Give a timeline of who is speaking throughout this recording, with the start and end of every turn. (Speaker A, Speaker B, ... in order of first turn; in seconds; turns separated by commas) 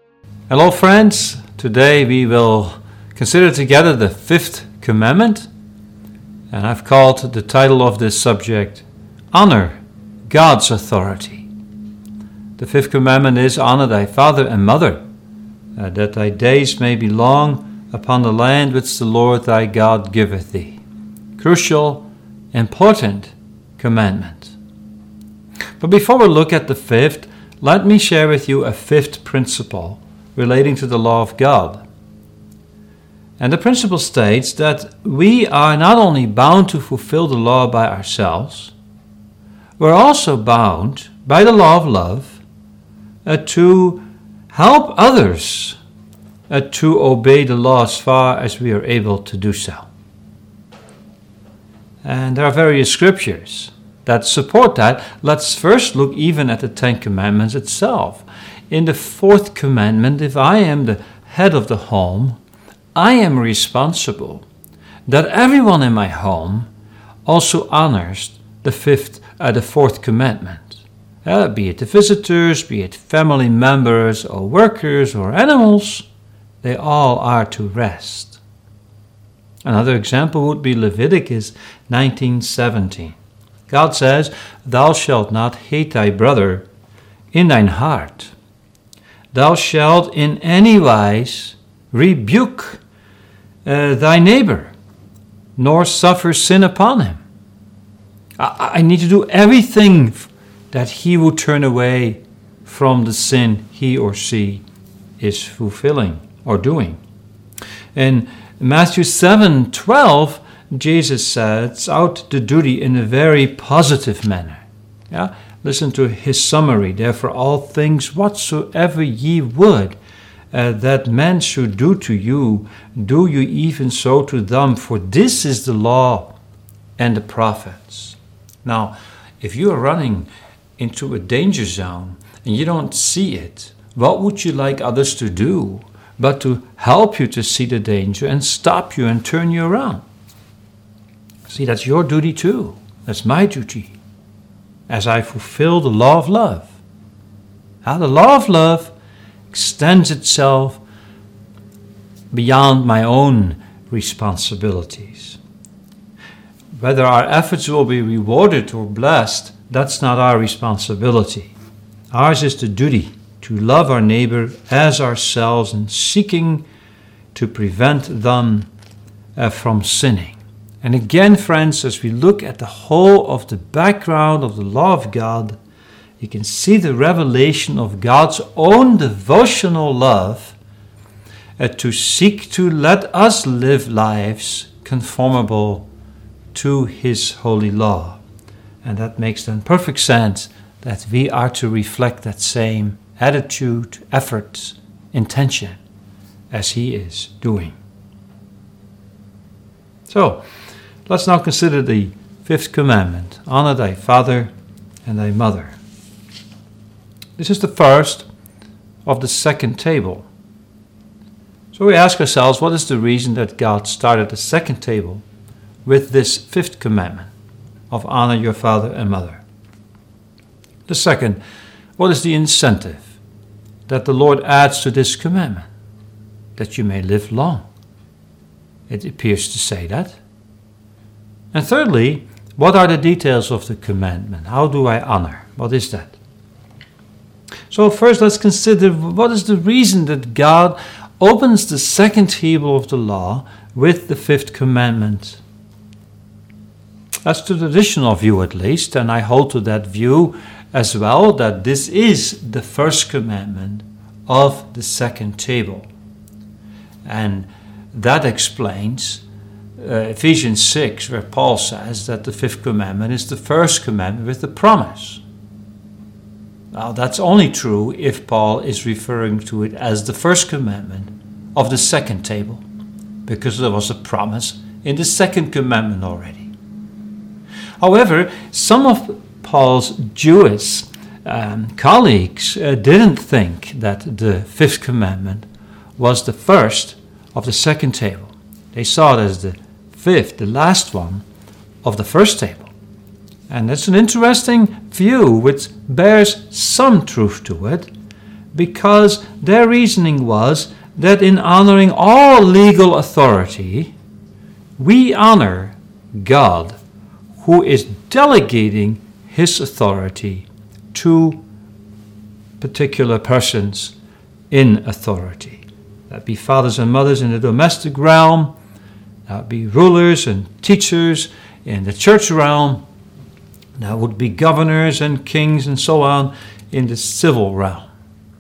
Speaker A: 0.5-5.5, Speaker A: 6.5-11.5, Speaker A: 12.6-15.0, Speaker A: 15.8-20.8, Speaker A: 21.4-24.6, Speaker A: 25.8-31.8, Speaker A: 33.4-38.7, Speaker A: 39.8-42.4, Speaker A: 43.2-45.8, Speaker A: 46.5-49.9, Speaker A: 52.0-62.4, Speaker A: 63.0-64.5, Speaker A: 65.1-66.7, Speaker A: 67.3-76.1, Speaker A: 76.6-78.4, Speaker A: 79.7-83.2, Speaker A: 83.7-86.7, Speaker A: 87.3-88.3, Speaker A: 89.3-92.8, Speaker A: 93.7-94.7, Speaker A: 95.6-97.2, Speaker A: 98.4-104.6, Speaker A: 105.2-107.0, Speaker A: 108.0-120.0, Speaker A: 120.5-126.3, Speaker A: 127.0-140.0, Speaker A: 141.5-143.9, Speaker A: 144.9-146.8, Speaker A: 147.8-148.9, Speaker A: 149.5-150.8, Speaker A: 152.3-155.4, Speaker A: 156.8-161.5, Speaker A: 162.1-166.7, Speaker A: 167.3-168.7, Speaker A: 169.4-175.6, Speaker A: 176.2-180.6, Speaker A: 181.6-185.9, Speaker A: 186.5-188.2, Speaker A: 188.8-195.8, Speaker A: 196.5-197.8, Speaker A: 200.1-200.4, Speaker A: 201.1-204.5, Speaker A: 205.1-205.8, Speaker A: 207.4-208.3, Speaker A: 209.1-210.3, Speaker A: 211.7-215.2, Speaker A: 215.8-217.3, Speaker A: 217.9-219.4, Speaker A: 220.9-221.4, Speaker A: 222.0-223.1, Speaker A: 223.9-225.7, Speaker A: 226.6-227.7, Speaker A: 228.9-230.2, Speaker A: 231.5-236.2, Speaker A: 237.7-245.4, Speaker A: 247.3-255.9, Speaker A: 257.1-259.2, Speaker A: 259.8-265.2, Speaker A: 266.7-272.6, Speaker A: 273.3-276.5, Speaker A: 277.8-285.4, Speaker A: 286.0-291.2, Speaker A: 291.8-292.7, Speaker A: 293.5-297.9, Speaker A: 298.5-303.9, Speaker A: 304.8-306.8, Speaker A: 307.4-311.4, Speaker A: 312.6-313.9, Speaker A: 314.5-318.5, Speaker A: 319.3-322.8, Speaker A: 323.8-327.9